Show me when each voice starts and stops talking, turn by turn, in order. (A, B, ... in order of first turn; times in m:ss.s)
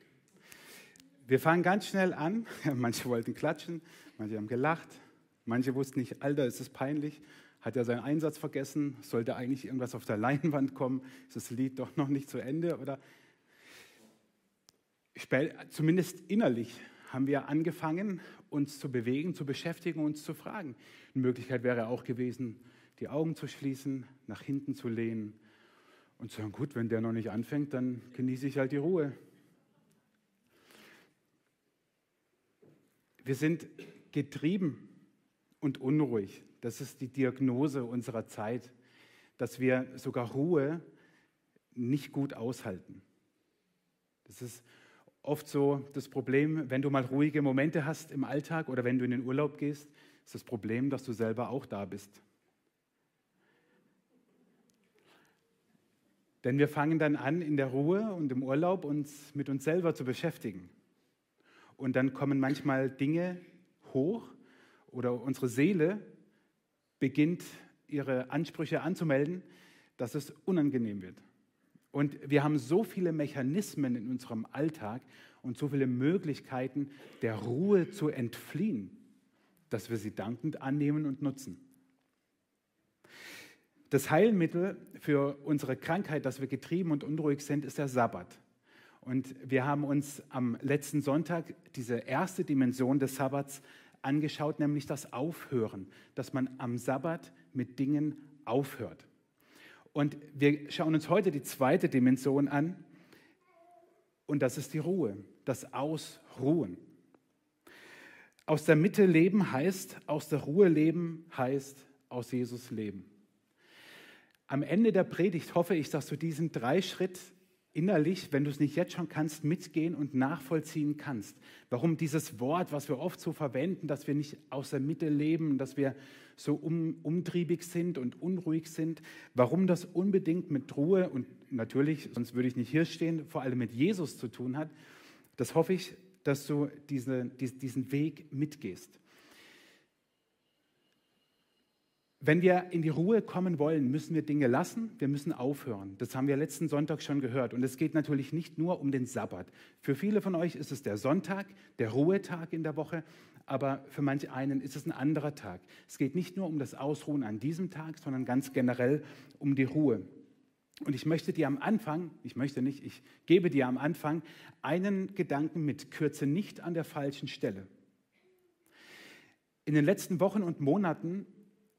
0:01.2-0:13.0 A
0:15.1-0:25.4 A
0:26.2-0:29.1 A
0:33.2-0:34.9 A
0:35.6-0:38.7 A
0:39.4-0:40.8 A
0:41.7-0:43.0 A
0:44.2-0:44.6 A
0:45.2-0:52.2 A
0:56.4-1:00.7 A
1:01.8-1:04.3 A
1:04.9-1:06.1 A
1:07.0-1:09.4 A
1:10.0-1:11.2 A
1:11.9-1:19.0 A
1:19.7-1:21.6 A
1:23.9-1:28.4 A
1:29.0-1:39.1 A
1:39.9-1:42.8 A
1:44.3-1:46.8 A
1:48.5-1:53.1 A
1:54.5-2:14.7 A
2:15.4-2:19.0 A
2:22.2-2:40.1 A
2:40.8-2:47.7 A
2:49.6-2:51.3 A